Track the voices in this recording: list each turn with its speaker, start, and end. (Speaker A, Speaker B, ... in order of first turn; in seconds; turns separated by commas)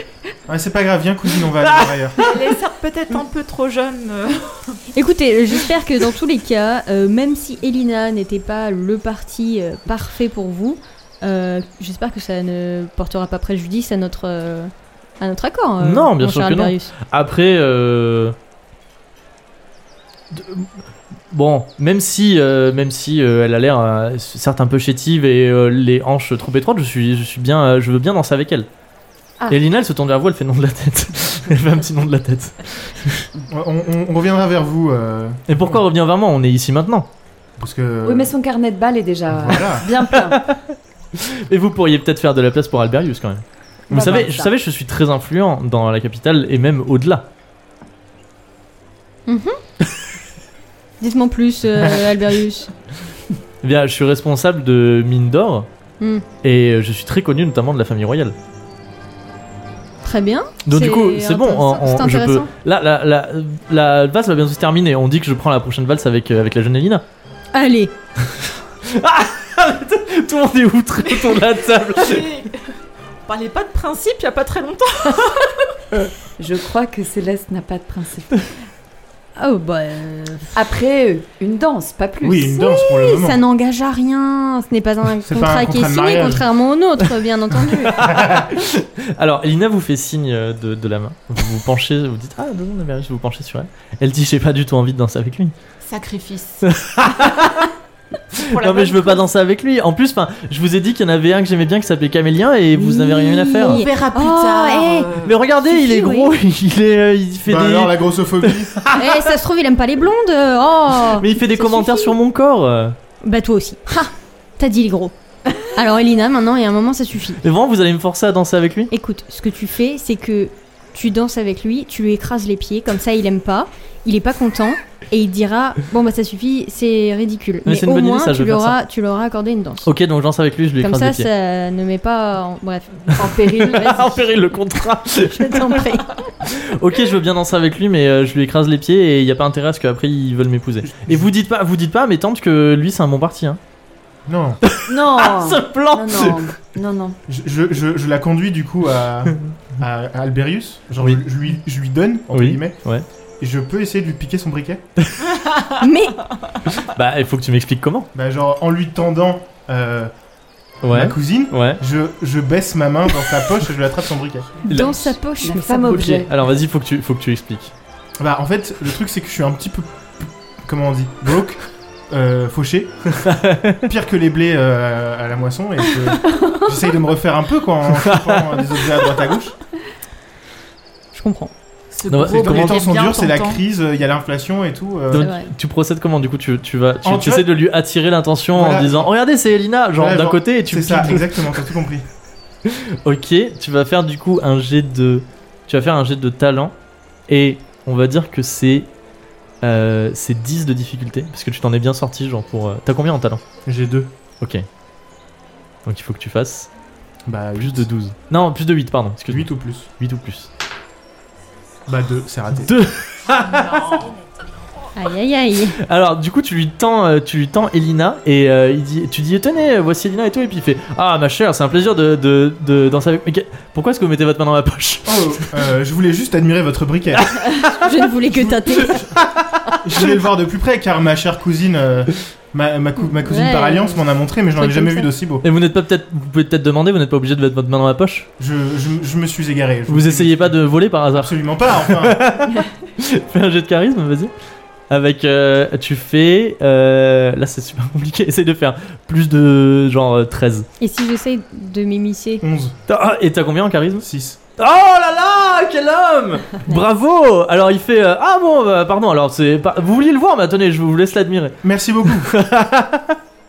Speaker A: 0.5-2.2, Speaker B: 2.2-4.8, Speaker C: 4.9-16.9, Speaker D: 15.8-18.4, Speaker D: 20.3-20.7, Speaker D: 21.3-28.7, Speaker D: 29.5-33.3, Speaker A: 33.5-35.8, Speaker D: 35.5-37.1, Speaker A: 37.6-38.3, Speaker E: 38.0-40.4, Speaker A: 39.3-39.9, Speaker D: 40.1-47.3, Speaker E: 43.9-44.5, Speaker C: 49.3-49.6, Speaker C: 51.0-52.7, Speaker D: 53.6-55.7, Speaker C: 56.0-56.2, Speaker D: 56.4-58.4, Speaker C: 60.0-62.5, Speaker D: 60.6-67.0, Speaker C: 67.5-67.9, Speaker D: 68.2-72.3, Speaker B: 71.1-72.8, Speaker B: 73.3-75.7, Speaker E: 76.4-78.5, Speaker C: 79.4-80.5, Speaker E: 80.5-82.6, Speaker A: 82.2-83.4, Speaker C: 82.5-88.1, Speaker A: 85.2-86.4, Speaker D: 87.7-95.5, Speaker B: 95.8-96.7, Speaker D: 96.6-97.7, Speaker D: 98.3-103.8, Speaker B: 98.3-99.3, Speaker C: 102.7-105.1, Speaker B: 103.6-105.3, Speaker D: 105.2-109.3, Speaker C: 105.6-106.3, Speaker A: 107.5-108.8, Speaker C: 108.9-112.2, Speaker D: 111.0-113.0, Speaker C: 113.2-117.4, Speaker D: 117.4-118.9, Speaker C: 118.9-129.9, Speaker D: 127.6-128.8, Speaker D: 129.8-131.3, Speaker C: 130.8-133.9, Speaker D: 133.1-143.6, Speaker E: 133.2-134.3, Speaker C: 135.2-136.3, Speaker A: 140.8-141.3, Speaker A: 144.3-144.6, Speaker D: 144.6-146.4, Speaker E: 144.9-147.2, Speaker A: 147.3-152.8, Speaker D: 152.3-153.1, Speaker A: 153.4-154.8, Speaker C: 155.8-156.3, Speaker D: 156.8-158.1, Speaker A: 158.1-160.1, Speaker D: 160.8-161.8, Speaker A: 160.9-164.6, Speaker D: 164.7-165.2, Speaker C: 164.7-166.2, Speaker E: 164.7-166.3, Speaker D: 165.8-167.7, Speaker A: 168.2-173.2, Speaker D: 173.1-173.8, Speaker A: 173.8-179.6, Speaker E: 176.2-176.7, Speaker D: 178.0-178.6, Speaker C: 181.1-181.5, Speaker B: 181.9-183.6, Speaker D: 182.1-182.8, Speaker A: 182.3-185.3, Speaker D: 185.1-191.7, Speaker C: 185.2-185.5, Speaker A: 187.0-187.5, Speaker A: 188.5-189.1, Speaker A: 189.9-192.0, Speaker D: 192.7-196.7, Speaker D: 197.3-198.9, Speaker D: 199.6-203.4, Speaker A: 203.7-204.1, Speaker D: 204.4-204.7, Speaker D: 205.8-206.7, Speaker A: 207.2-207.9, Speaker D: 207.6-210.5, Speaker A: 209.3-209.9, Speaker A: 211.9-212.7, Speaker D: 212.6-214.1, Speaker B: 213.5-214.1, Speaker C: 214.9-215.8, Speaker D: 215.7-225.5, Speaker A: 225.1-227.6, Speaker D: 227.2-227.9, Speaker C: 227.7-229.0, Speaker A: 228.3-229.2, Speaker D: 228.8-230.1, Speaker A: 229.8-235.4, Speaker C: 233.0-235.1, Speaker D: 235.4-238.3, Speaker A: 238.4-240.6, Speaker D: 239.9-244.3, Speaker A: 241.1-242.4, Speaker D: 244.9-250.7, Speaker C: 250.8-252.4, Speaker A: 252.4-252.8, Speaker D: 252.9-263.2, Speaker A: 254.0-254.4, Speaker A: 261.6-262.3